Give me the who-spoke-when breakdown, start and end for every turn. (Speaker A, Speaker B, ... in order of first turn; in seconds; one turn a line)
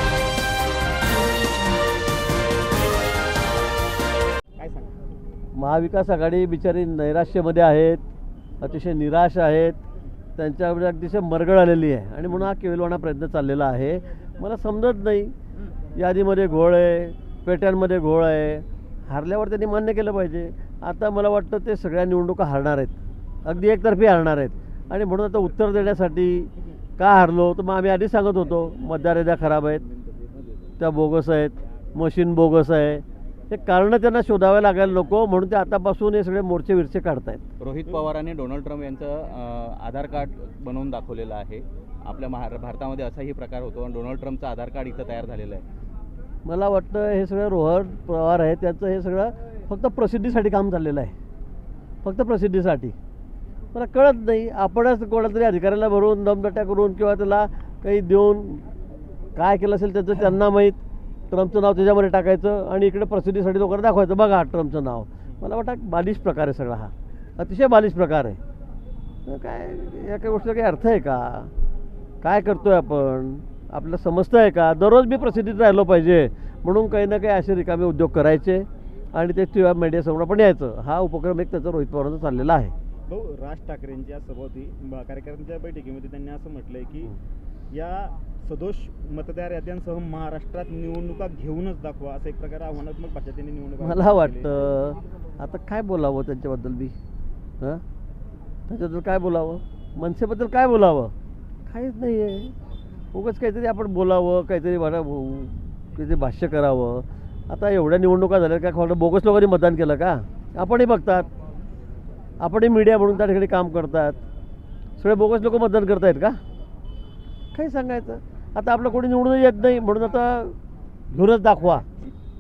Speaker A: 4.6-4.9
Speaker B: 5.5-8.0
Speaker B: 8.6-9.8
Speaker B: 10.4-15.3
Speaker B: 15.9-29.8
Speaker B: 30.8-37.5
Speaker C: 37.6-45.6
Speaker B: 46.4-51.1
Speaker B: 52.0-52.9
Speaker B: 53.7-58.7
Speaker B: 59.4-60.8
Speaker B: 61.3-68.4
Speaker B: 69.2-71.5
Speaker B: 72.2-82.7
Speaker A: 83.1-87.1
Speaker A: 87.7-94.5
Speaker B: 93.8-96.9
Speaker B: 98.7-101.1
Speaker B: 101.7-102.5
Speaker B: 103.1-111.3
Speaker B: 112.4-114.2
Speaker B: 115.0-116.4
Speaker B: 117.5-120.6
Speaker B: 121.1-121.9